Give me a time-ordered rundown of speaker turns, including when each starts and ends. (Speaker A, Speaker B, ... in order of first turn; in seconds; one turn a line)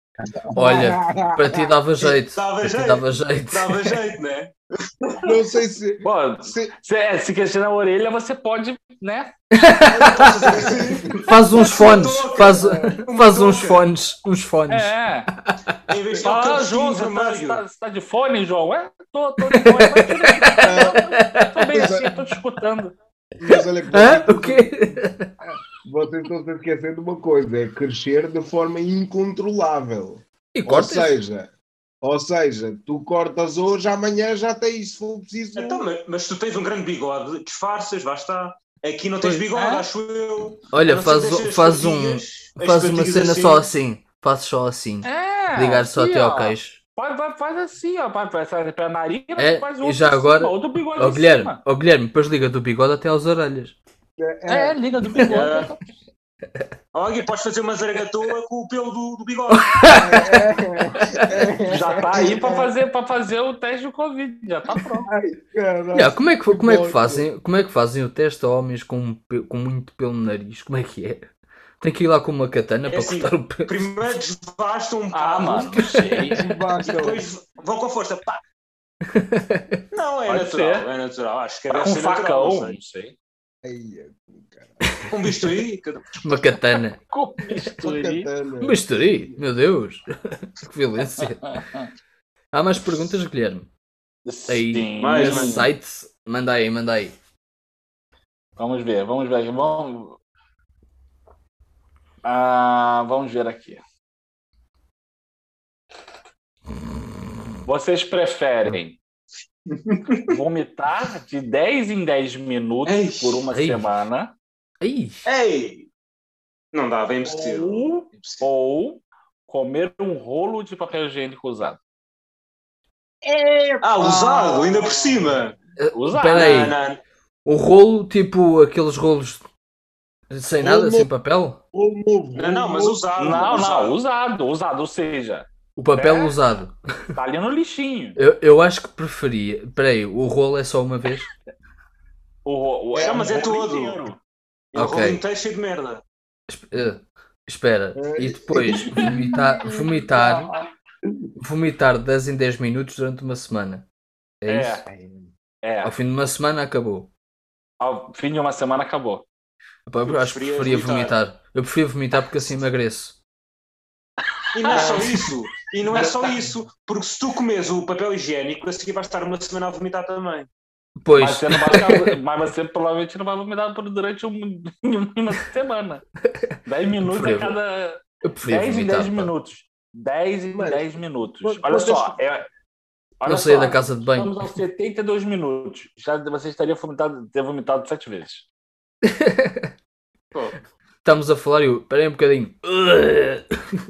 Speaker A: 0.2-2.2
Speaker B: 0.6-4.0
Speaker C: 2.3-5.3
Speaker A: 5.2-6.7
Speaker D: 6.0-9.4
Speaker B: 9.5-10.5
Speaker C: 9.8-13.8
Speaker A: 10.4-11.3
Speaker B: 11.2-15.6
Speaker A: 12.4-13.0
Speaker D: 14.7-15.3
Speaker C: 15.9-17.6
Speaker D: 16.2-22.9
Speaker B: 19.5-21.9
Speaker A: 20.6-21.0
Speaker A: 21.7-22.2
Speaker A: 23.4-31.5
Speaker B: 23.5-25.3
Speaker B: 30.5-31.2
Speaker A: 32.0-35.9
Speaker C: 35.6-43.7
Speaker D: 39.3-39.9
Speaker B: 40.7-46.8
Speaker D: 45.0-51.6
Speaker B: 49.4-53.8
Speaker A: 54.2-54.8
Speaker D: 54.5-56.0
Speaker C: 55.3-55.7
Speaker C: 56.9-60.0
Speaker B: 59.5-61.3
Speaker A: 59.9-62.7
Speaker D: 61.6-65.1
Speaker A: 65.1-67.3
Speaker B: 66.0-71.3
Speaker B: 71.8-73.9
Speaker C: 72.9-75.9
Speaker D: 75.1-76.4
Speaker B: 75.8-76.4
Speaker A: 76.3-77.3
Speaker C: 76.8-78.4
Speaker B: 79.1-79.8
Speaker C: 79.9-82.8
Speaker D: 80.3-80.9
Speaker D: 81.7-83.2
Speaker A: 83.6-84.8
Speaker C: 85.1-86.1
Speaker B: 86.2-87.0
Speaker D: 87.1-88.3
Speaker A: 87.8-89.4
Speaker B: 88.6-91.5
Speaker D: 91.2-91.9
Speaker B: 92.5-93.7
Speaker D: 94.2-95.7
Speaker B: 94.5-97.2
Speaker C: 95.0-95.7
Speaker D: 98.6-100.2
Speaker D: 102.2-103.8
Speaker D: 107.7-109.0
Speaker C: 109.7-110.3
Speaker D: 110.3-114.3
Speaker C: 112.8-113.5
Speaker B: 113.5-113.9
Speaker B: 114.8-115.3
Speaker C: 115.2-115.9
Speaker C: 116.7-118.5
Speaker D: 117.2-121.8
Speaker A: 123.2-125.4
Speaker C: 123.8-125.5
Speaker B: 125.8-126.8
Speaker D: 125.9-126.8
Speaker C: 126.3-127.0
Speaker B: 127.5-129.5
Speaker B: 130.3-131.6
Speaker A: 130.6-131.1
Speaker A: 131.7-133.7
Speaker C: 132.4-134.0
Speaker D: 133.2-136.4
Speaker B: 135.8-136.8
Speaker D: 137.2-138.2
Speaker B: 138.2-141.3
Speaker D: 142.4-144.2
Speaker C: 142.9-144.1
Speaker C: 144.7-146.0
Speaker B: 144.8-145.2
Speaker B: 146.5-150.5
Speaker A: 147.9-151.3
Speaker B: 151.4-153.8
Speaker B: 154.4-154.8
Speaker D: 154.5-154.9
Speaker A: 154.9-155.3
Speaker D: 155.6-155.9
Speaker B: 155.8-157.1
Speaker D: 157.8-159.3
Speaker B: 159.9-163.2
Speaker C: 160.1-161.2
Speaker C: 164.5-170.5
Speaker D: 164.6-165.3
Speaker B: 171.0-172.2
Speaker D: 171.2-176.0
Speaker B: 176.3-177.6
Speaker D: 176.7-182.5
Speaker B: 178.2-179.3
Speaker A: 180.5-182.2
Speaker D: 183.2-188.5
Speaker B: 183.3-184.5
Speaker B: 189.1-189.7
Speaker C: 190.3-190.7
Speaker B: 191.0-193.8